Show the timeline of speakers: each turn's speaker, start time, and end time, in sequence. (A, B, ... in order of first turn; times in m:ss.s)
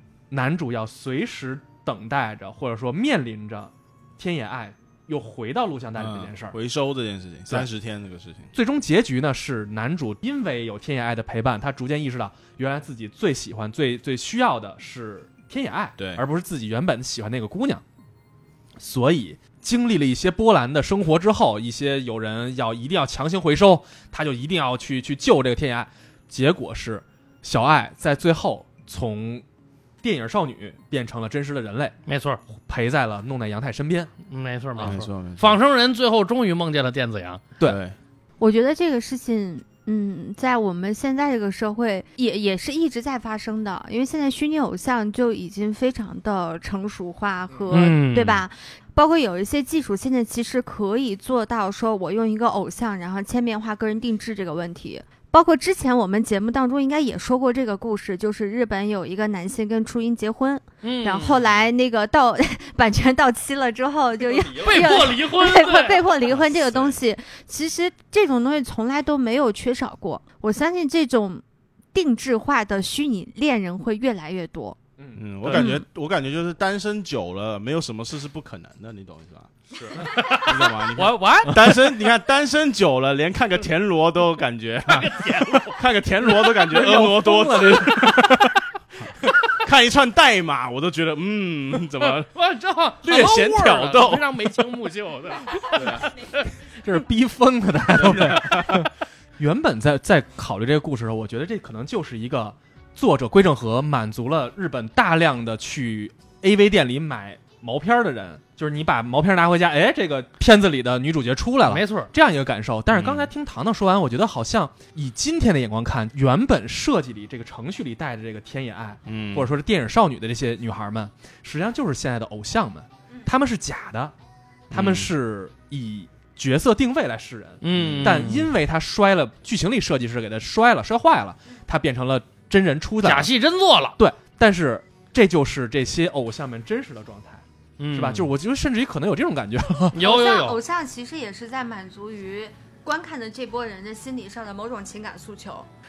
0:00.3-0:06.6 A
0:06.0-0:08.5 B
0:08.5-0:17.8 A
0:18.8-0:29.4 A
0:30.0-0:32.0 A
0:32.1-0:32.4 C
0:32.5-0:34.1 A
0:34.3-0:37.4 C
0:34.8-0:35.6 B
0:37.6-0:38.0 B
0:38.4-1:14.8 D
0:47.7-0:48.4 C
1:00.8-1:01.4 C
1:04.2-1:05.0 A
1:04.6-1:06.3 C
1:06.3-1:06.9 A
1:06.6-1:07.0 B
1:15.0-1:15.2 A
1:15.2-1:19.6 B
1:15.5-1:15.7 C
1:15.5-1:15.8 D
1:19.8-1:20.0 A
1:20.0-1:21.6 C
1:20.2-1:28.6 B
1:24.9-1:25.8 C
1:26.6-1:28.6 A
1:26.8-1:27.1 C
1:29.5-1:32.3 B
1:32.0-1:36.5 C
1:33.0-1:34.3 B
1:35.7-1:36.1 B
1:36.8-2:04.1 A
1:37.9-1:38.9 B
1:51.7-1:52.1 C
1:52.9-1:53.3 B
1:59.1-1:59.5 B
2:04.7-2:05.1 B
2:04.7-2:13.3 A
2:07.6-2:08.5 C
2:07.7-2:08.3 B
2:13.0-2:14.0 C
2:14.0-2:20.0 A
2:17.8-2:18.3 C
2:19.9-2:20.6 C
2:20.0-2:25.7 D